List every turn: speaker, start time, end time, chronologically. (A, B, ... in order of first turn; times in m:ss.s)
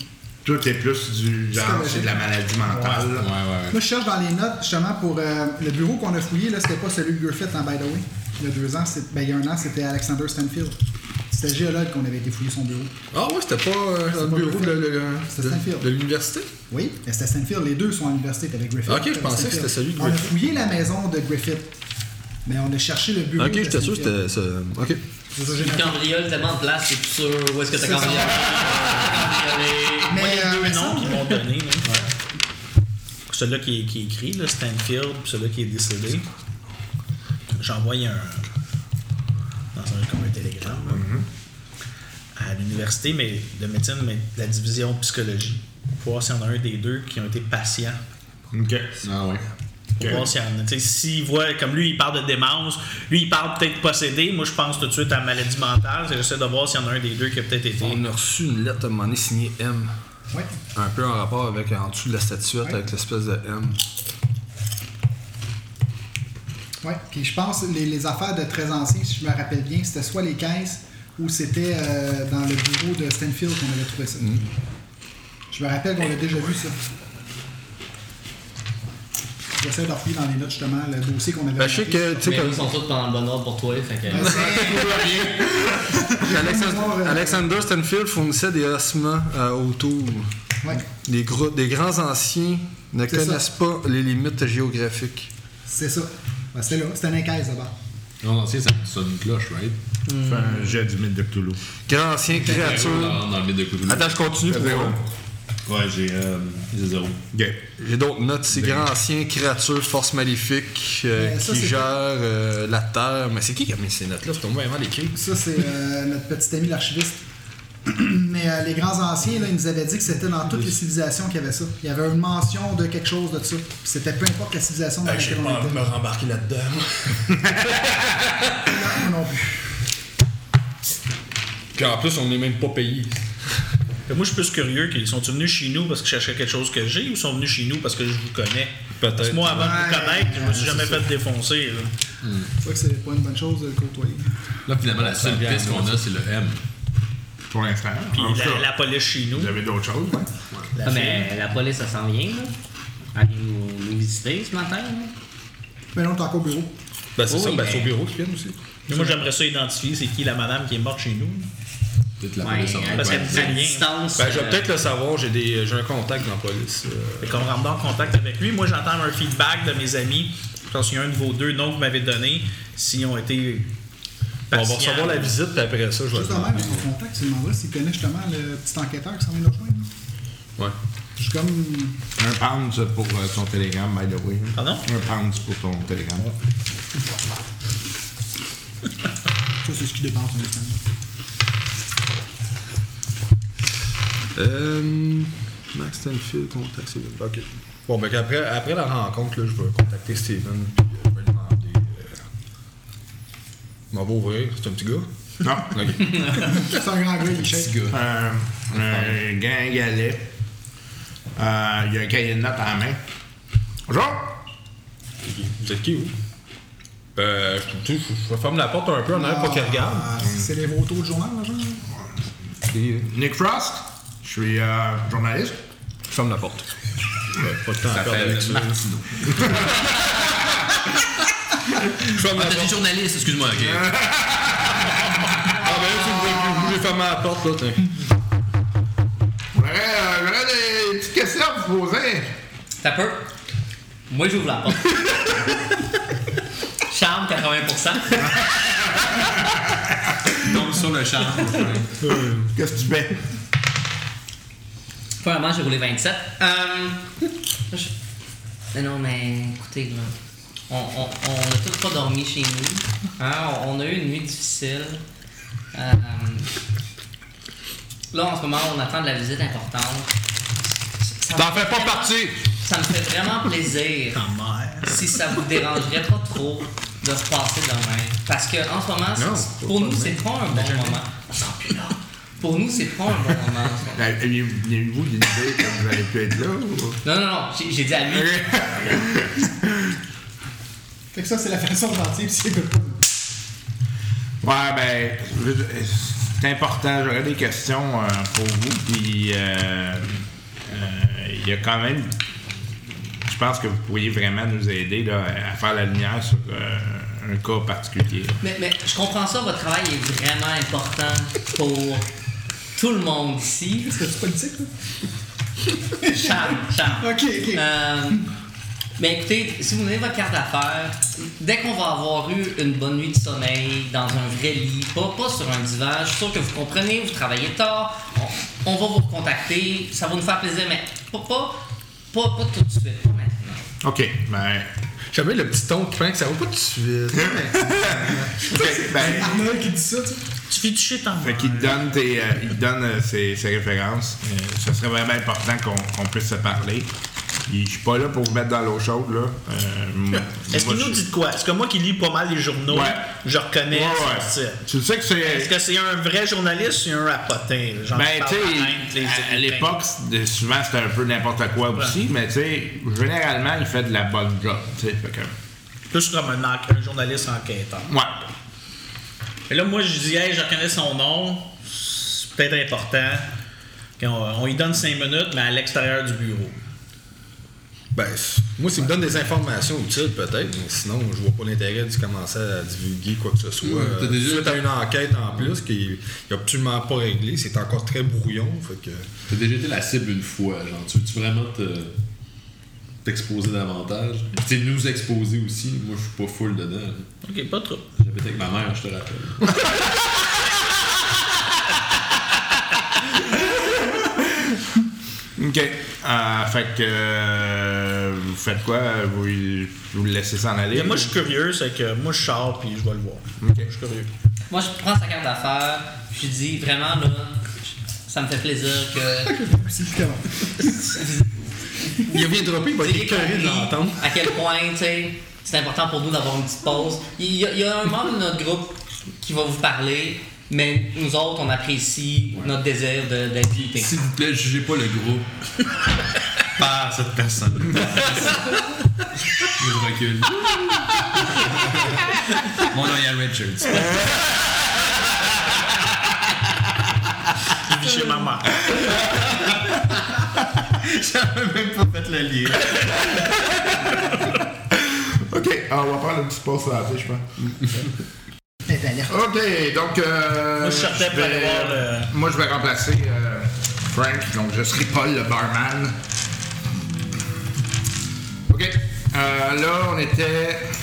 0:00.4-0:03.3 A
0:01.5-0:10.8 B
0:03.2-0:03.8 C
0:11.3-0:13.0 B
0:13.1-0:16.5 D
0:14.1-0:15.9 B
0:16.7-0:21.8 B
0:18.9-0:20.4 D
0:22.4-0:24.1 B
0:23.4-0:25.0 D
0:25.4-0:26.0 B
0:25.6-0:30.1 E
0:27.8-0:28.9 B
0:30.0-0:31.4 B
0:30.1-0:32.0 F
0:33.3-0:36.3 F
0:37.5-0:38.5 F
0:39.7-0:41.0 F
0:40.9-0:41.2 A
0:42.4-0:48.0 F
0:48.5-0:49.0 A
0:49.0-0:49.4 C
0:50.0-0:58.0 F
0:50.0-0:50.2 A
0:57.8-0:59.9 D
1:00.3-1:00.6 B
1:00.7-1:03.8 D
1:06.8-1:14.4 B
1:15.5-1:16.8 B
1:19.6-1:22.4 B
1:21.6-1:22.6 D
1:22.2-1:24.5 E
1:24.1-1:25.1 B
1:24.2-1:26.1 A
1:26.0-1:27.5 B
1:26.2-1:30.3 D
1:30.9-1:35.3 D
1:33.1-1:33.4 B
1:35.7-1:37.7 B
1:38.2-1:39.8 C
1:40.1-1:40.7 E
1:40.2-1:41.6 A
1:41.9-1:43.2 D
1:42.3-1:44.3 C
1:43.8-1:45.0 D
1:44.5-1:45.0 A
1:45.6-1:47.2 C
1:47.3-1:47.6 A
1:47.8-1:55.2 D
1:48.5-1:48.9 C
1:51.1-1:51.9 B
1:55.1-1:57.2 B
1:57.8-2:05.9 B
2:05.1-2:08.5 D
2:08.6-2:09.6 B
2:11.7-2:13.3 D
2:14.1-2:21.9 F
2:19.0-2:19.9 D
2:19.5-2:21.0 B
2:22.2-2:22.5 C
2:22.6-2:24.3 B
2:24.6-2:26.6 C
2:25.0-2:26.0 D
2:27.5-2:28.7 A
2:28.1-2:29.6 F
2:29.3-2:30.3 A
2:30.8-2:31.2 B
2:30.8-2:32.5 E
2:33.1-2:35.1 E
2:35.9-2:36.7 B
2:37.2-2:39.1 D
2:37.3-2:37.9 E
2:38.9-2:41.5 F
2:42.2-2:43.6 C
2:42.4-2:44.6 E
2:42.9-2:43.8 F
2:44.2-2:47.5 D
2:47.2-2:53.7 F
2:54.5-2:55.3 F
2:54.5-2:56.8 D
2:56.1-2:59.9 B
3:01.2-3:02.0 B
3:02.2-3:06.3 A
3:04.5-3:04.8 F
3:09.6-3:10.8 B
3:14.3-3:22.2 D
3:23.9-3:25.1 D
3:25.4-3:26.2 A
3:25.6-3:26.7 D
3:26.3-3:27.8 B
3:27.5-3:27.8 D
3:27.9-3:30.3 A
3:31.4-3:33.0 A
3:33.9-3:34.4 A
3:35.2-3:36.1 D
3:37.2-3:40.1 D
3:39.1-3:41.8 B
3:42.7-3:43.1 D
3:42.9-3:45.6 A
3:46.1-3:46.7 D
3:47.4-3:49.7 D
3:47.7-3:49.6 C
3:52.0-3:52.8 D
3:52.1-3:53.9 C
3:53.7-3:56.7 A
3:55.5-3:57.9 D
3:59.5-4:02.3 A
4:02.8-4:03.3 E
4:04.1-4:05.4 E
4:06.9-4:08.5 E
4:10.4-4:12.1 C
4:12.1-4:12.5 D
4:12.5-4:13.2 A
4:15.2-4:17.9 E
4:18.7-4:20.1 E
4:20.7-4:25.0 E
4:25.7-4:26.5 E
4:28.1-4:30.1 E
4:30.7-4:34.2 E
4:31.4-4:32.4 D
4:34.1-4:35.1 F
4:34.8-4:41.3 E
4:39.2-4:41.0 D
4:42.4-4:44.0 E
4:44.0-4:47.0 A
4:47.0-4:48.8 E
4:48.1-4:49.9 A
4:51.1-4:53.0 B
4:54.4-5:02.2 A
5:03.2-5:08.4 A
5:08.4-5:12.1 E
5:12.7-5:14.0 E
5:13.8-5:14.7 B
5:16.0-5:17.7 B
5:16.0-5:18.3 E
5:19.0-5:31.6 E
5:32.1-5:33.6 E
5:33.8-5:34.7 A
5:35.1-5:38.5 D
5:37.3-5:39.4 A
5:38.6-5:40.2 B
5:39.0-5:39.3 D
5:40.5-5:41.8 F
5:41.2-5:46.9 A
5:47.5-5:51.0 A
5:50.5-5:54.6 F
5:52.7-5:53.0 A
5:53.7-5:55.5 A
5:55.2-5:59.7 F
5:57.9-6:05.3 A
6:05.9-6:07.9 F
6:07.9-6:08.2 A
6:09.5-6:13.3 F
6:14.0-6:16.6 F
6:17.9-6:29.1 D
6:23.6-6:24.7 C
6:29.3-6:31.9 C
6:33.0-6:37.1 C
6:37.2-6:37.8 F
6:38.0-6:39.7 C
6:43.5-6:44.2 A
6:45.4-6:51.1 A
6:50.7-6:54.1 F
6:53.4-6:53.7 A
6:54.5-6:59.4 E
6:59.2-7:00.8 B
7:00.6-7:01.3 E
7:02.1-7:04.0 D
7:02.8-7:14.0 E
7:13.8-7:15.3 C
7:16.5-7:18.5 C
7:19.4-7:24.2 C
7:27.6-7:28.6 F
7:28.7-7:29.2 A
7:30.8-7:32.9 C
7:33.2-7:34.1 A
7:34.7-7:37.8 A
7:38.6-7:39.1 B
7:39.1-7:46.0 A
7:40.6-7:42.1 F
7:48.5-7:50.7 A